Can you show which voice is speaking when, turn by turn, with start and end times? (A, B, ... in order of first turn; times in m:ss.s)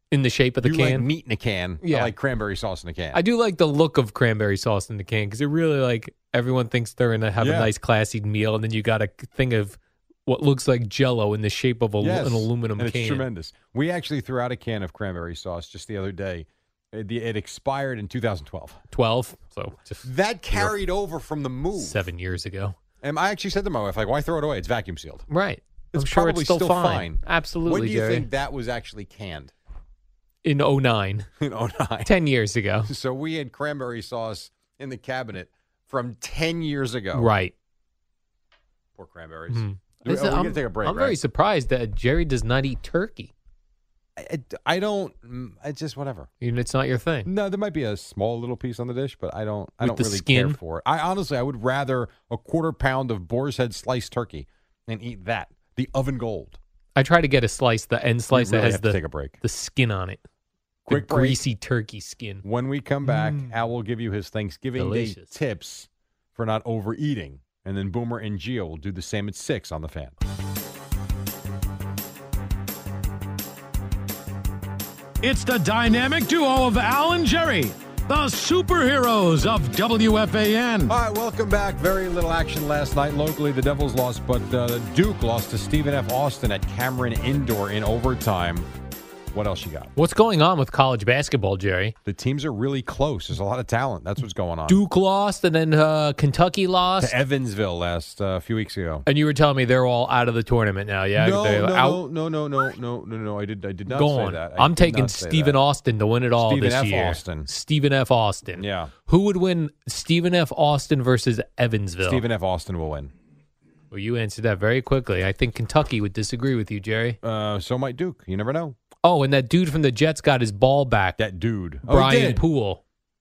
0:00.1-0:01.1 A
0:00.6-0:03.2 B
0:01.8-0:02.1 A
0:03.1-0:13.3 A
0:07.4-0:07.7 B
0:12.0-0:18.8 B
0:18.9-0:20.7 A
0:20.0-0:22.0 B
0:21.8-0:22.8 A
0:23.0-0:25.3 B
0:25.3-0:28.3 A
0:25.9-0:29.5 B
0:30.4-0:31.3 A
0:31.4-0:32.1 B
0:32.0-0:32.9 A
0:32.9-0:37.3 B
0:37.1-0:37.5 A
0:39.0-0:41.2 B
0:39.5-0:43.3 A
0:44.2-0:46.3 B
0:46.4-0:47.3 A
0:47.3-0:56.6 B
0:49.8-0:50.6 A
0:57.0-1:00.2 A
0:58.3-0:59.4 B
1:00.8-1:01.4 B
1:00.9-1:02.4 A
1:02.4-1:10.2 B
1:03.0-1:03.5 A
1:04.8-1:05.3 A
1:15.2-1:20.9 C
1:20.9-1:28.7 B
1:29.3-1:29.9 B
1:30.0-1:32.0 A
1:32.0-1:34.8 B
1:34.7-1:37.1 A
1:37.0-1:39.1 B
1:39.1-1:42.0 A
1:41.2-1:45.6 B
1:43.9-1:52.2 A
1:46.4-1:47.5 B
1:48.6-1:48.9 B
1:52.0-1:53.1 B
1:53.9-1:57.2 A
1:57.2-1:58.8 B
1:59.0-2:01.2 A
2:01.2-2:02.4 B
2:01.8-2:02.8 A